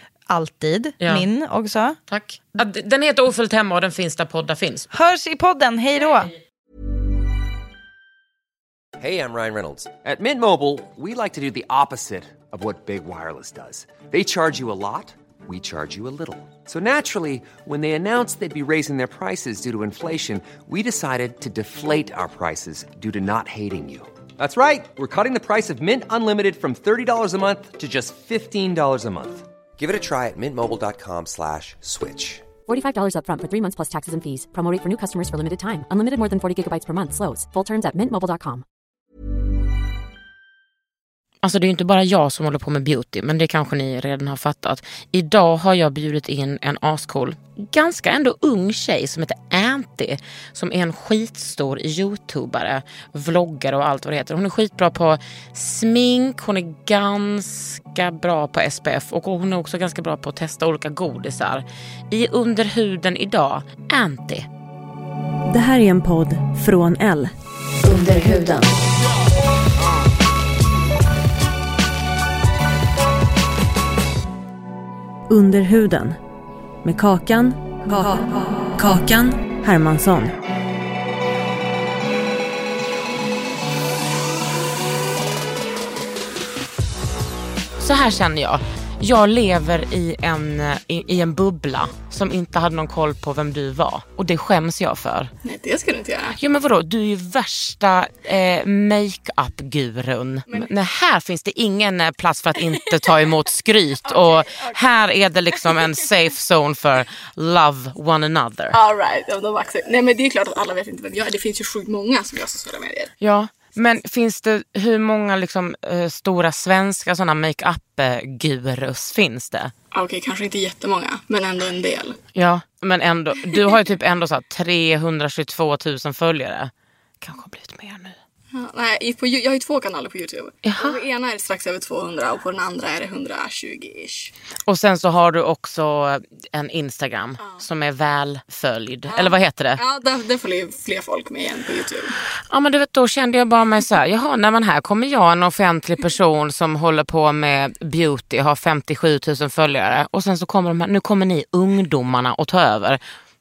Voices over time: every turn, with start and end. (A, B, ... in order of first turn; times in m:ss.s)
0:00.3-0:02.0 A
0:01.0-0:01.3 B
0:02.1-0:04.9 B
0:04.9-0:06.3 A
0:09.0-0:32.4 C
0:32.7-0:38.6 D
0:41.4-1:04.5 B
1:05.5-1:08.8 E
1:15.3-1:16.2 E
1:16.8-1:20.4 E
1:27.8-1:35.3 B
1:35.4-1:36.4 F
1:36.4-1:48.8 B
1:42.7-1:43.3 F
1:44.0-1:46.0 F
1:48.7-1:53.1 F
1:53.2-1:59.7 B
1:59.9-2:02.2 F
2:02.4-2:08.2 B
2:08.5-2:14.3 F
2:10.6-2:11.0 B
2:14.7-2:19.8 B
2:17.4-2:17.6 F
2:19.1-2:22.2 F
2:22.5-2:33.0 B